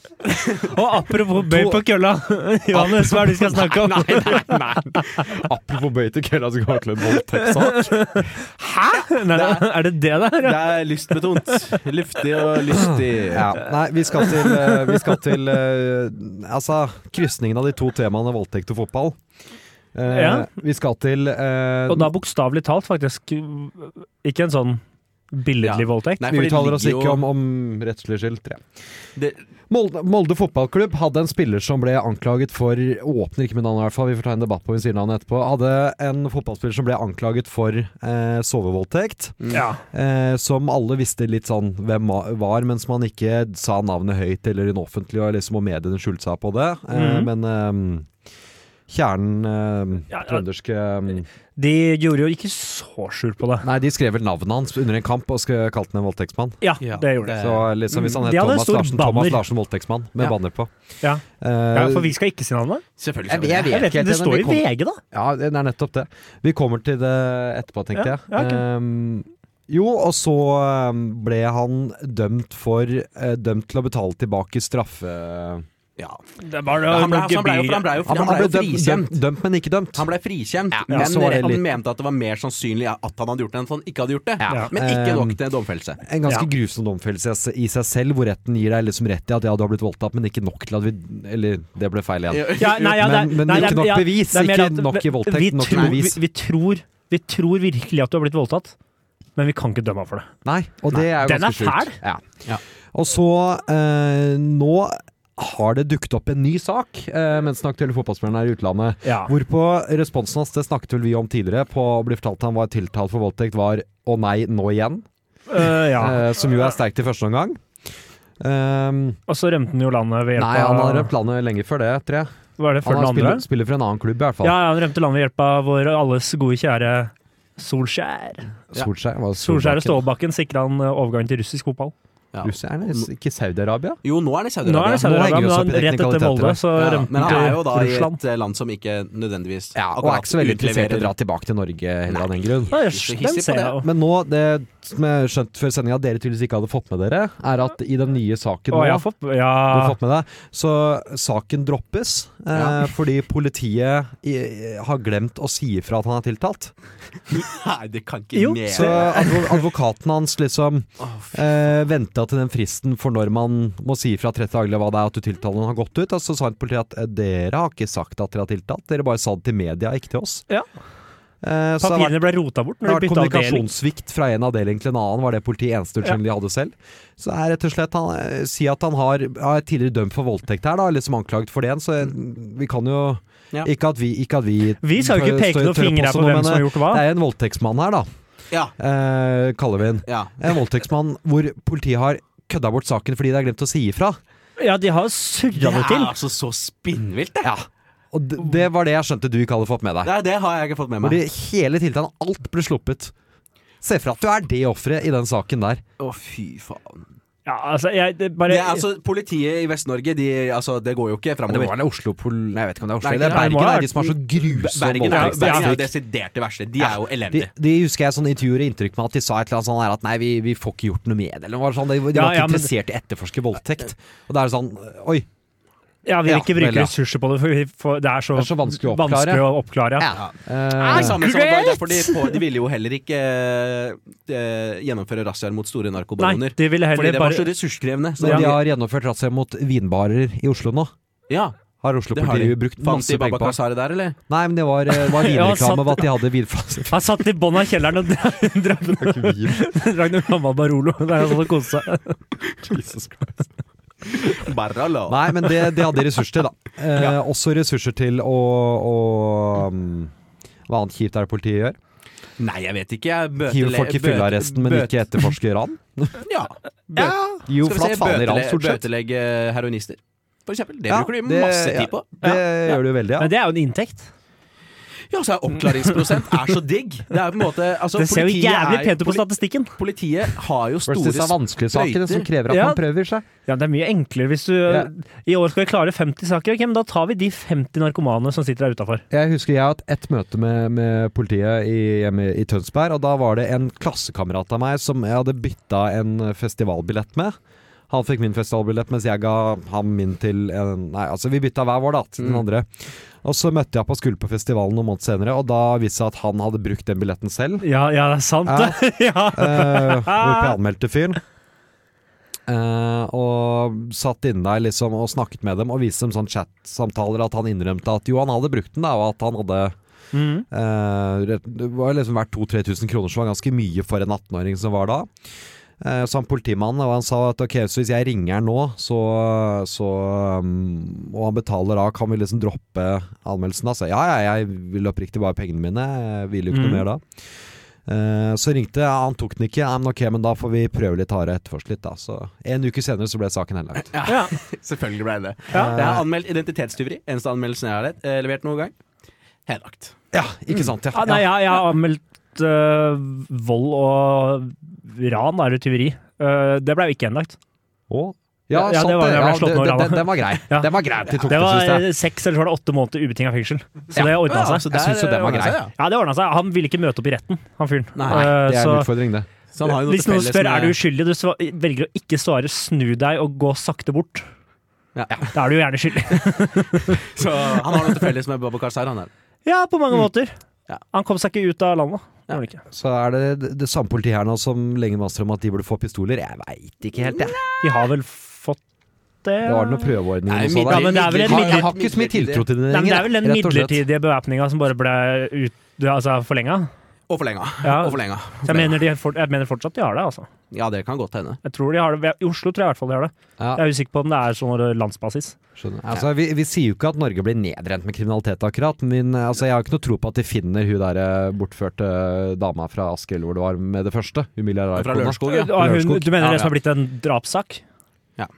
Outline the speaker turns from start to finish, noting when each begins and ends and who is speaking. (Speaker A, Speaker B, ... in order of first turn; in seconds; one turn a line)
Speaker A: 0.5-5.4
Speaker B: 1.4-1.8
Speaker B: 2.7-8.2
Speaker A: 7.4-11.6
Speaker C: 9.3-9.7
Speaker C: 10.4-13.5
Speaker B: 12.7-19.2
Speaker A: 14.1-15.3
Speaker B: 19.9-22.1
Speaker A: 20.1-20.5
Speaker A: 21.9-26.3
Speaker C: 25.6-27.2
Speaker B: 26.3-28.6
Speaker C: 29.2-29.4
Speaker B: 29.7-48.1
Speaker A: 39.5-39.8
Speaker A: 46.9-47.3
Speaker B: 48.9-51.3
Speaker A: 50.1-50.4
Speaker A: 51.6-53.7
Speaker B: 53.6-56.6
Speaker A: 56.6-59.4
Speaker C: 56.8-58.2
Speaker B: 57.2-60.7
Speaker B: 61.4-62.1
Speaker A: 61.7-62.8
Speaker C: 63.0-63.8
Speaker B: 63.3-75.7
Speaker A: 63.7-65.0
Speaker A: 68.0-68.6
Speaker A: 76.4-78.0
Speaker C: 76.9-79.2
Speaker B: 78.1-80.1
Speaker C: 80.0-86.0
Speaker B: 80.7-81.7
Speaker B: 84.4-85.4
Speaker B: 86.0-96.2
Speaker C: 92.3-93.0
Speaker A: 92.6-98.8
Speaker C: 95.7-96.0
Speaker A: 99.4-100.3
Speaker B: 100.5-102.3
Speaker A: 101.2-102.0
Speaker B: 102.9-115.0
Speaker A: 109.0-109.3
Speaker A: 115.5-116.3
Speaker B: 115.6-117.6
Speaker B: 118.4-119.2
Speaker A: 119.3-121.1
Speaker B: 120.4-122.3
Speaker A: 122.6-123.5
Speaker B: 122.8-124.6
Speaker A: 124.4-128.5
Speaker B: 128.7-130.0
Speaker A: 129.4-131.9
Speaker C: 132.3-133.1
Speaker B: 132.4-134.0
Speaker C: 134.0-135.1
Speaker A: 134.6-138.2
Speaker B: 135.0-136.6
Speaker C: 136.8-141.1
Speaker B: 137.2-137.6
Speaker B: 139.8-142.7
Speaker C: 142.1-143.8
Speaker A: 142.7-143.9
Speaker B: 143.8-149.1
Speaker A: 148.7-150.0
Speaker B: 149.7-156.7
Speaker C: 152.5-152.8
Speaker C: 157.3-159.3
Speaker A: 158.3-159.5
Speaker B: 158.7-170.5
Speaker C: 161.0-161.5
Speaker B: 171.4-172.3
Speaker A: 171.8-173.7
Speaker B: 172.8-188.1
Speaker A: 184.8-187.0
Speaker B: 188.8-194.2
Speaker C: 190.1-190.5
Speaker A: 194.6-196.1
Speaker C: 195.6-197.5
Speaker B: 197.4-200.1
Speaker C: 200.0-201.2
Speaker B: 201.0-203.1
Speaker B: 203.8-205.8
Speaker C: 206.0-207.1
Speaker A: 207.5-208.9
Speaker C: 208.5-211.8
Speaker B: 211.5-215.9
Speaker C: 213.0-217.5
Speaker A: 213.3-213.9
Speaker A: 215.1-215.8
Speaker B: 216.8-225.3
Speaker A: 222.1-222.7
Speaker A: 226.1-230.1
Speaker B: 226.3-226.9
Speaker B: 228.4-229.5
Speaker B: 230.0-231.2
Speaker C: 230.8-238.6
Speaker A: 230.8-232.4
Speaker A: 236.2-237.5
Speaker B: 238.2-240.9
Speaker A: 238.2-238.5
Speaker C: 241.3-241.6
Speaker B: 241.8-243.6
Speaker C: 242.1-244.2
Speaker B: 244.3-247.0
Speaker A: 244.9-246.1
Speaker A: 246.9-252.2
Speaker B: 249.0-249.6
Speaker B: 252.6-253.5
Speaker C: 254.1-256.0
Speaker B: 255.1-260.1
Speaker B: 260.7-261.8
Speaker C: 262.4-265.2
Speaker B: 263.4-266.2
Speaker C: 266.2-272.1
Speaker B: 266.9-268.8
Speaker A: 266.9-267.4
Speaker B: 270.9-273.3
Speaker A: 272.2-274.1
Speaker C: 275.1-279.2
Speaker A: 278.0-279.7
Speaker C: 279.8-282.3
Speaker B: 280.9-283.2
Speaker A: 282.5-282.8
Speaker A: 283.4-289.0
Speaker B: 289.1-297.4
Speaker B: 297.9-307.7
Speaker C: 302.2-302.4
Speaker A: 307.6-310.6
Speaker B: 308.4-311.2
Speaker B: 312.5-319.8
Speaker A: 320.1-320.5
Speaker B: 320.5-325.1
Speaker B: 325.8-337.3
Speaker A: 336.5-336.8
Speaker B: 337.9-344.0
Speaker C: 343.9-348.7
Speaker A: 344.1-344.3
Speaker B: 345.6-346.1
Speaker C: 349.5-350.0
Speaker B: 350.1-351.3
Speaker A: 350.9-357.4
Speaker B: 357.9-361.9
Speaker A: 358.5-364.7
Speaker B: 363.9-365.6
Speaker C: 364.0-365.7
Speaker A: 365.8-368.9
Speaker C: 367.9-368.3
Speaker B: 368.1-369.3
Speaker C: 369.5-370.8
Speaker A: 369.6-374.3
Speaker C: 374.9-375.3
Speaker A: 375.3-377.0
Speaker C: 376.9-379.1
Speaker A: 379.4-380.4
Speaker A: 380.9-382.6
Speaker B: 382.7-387.4
Speaker C: 387.0-387.6
Speaker A: 387.6-388.6
Speaker A: 389.2-389.9
Speaker B: 389.4-393.8
Speaker C: 390.3-392.5
Speaker A: 390.7-391.7
Speaker A: 392.7-396.7
Speaker C: 397.1-398.8
Speaker A: 397.6-400.3
Speaker C: 400.5-401.4
Speaker A: 401.4-405.4
Speaker B: 403.4-403.6
Speaker B: 405.6-416.2
Speaker C: 414.8-415.6
Speaker A: 415.2-417.6
Speaker C: 416.2-416.5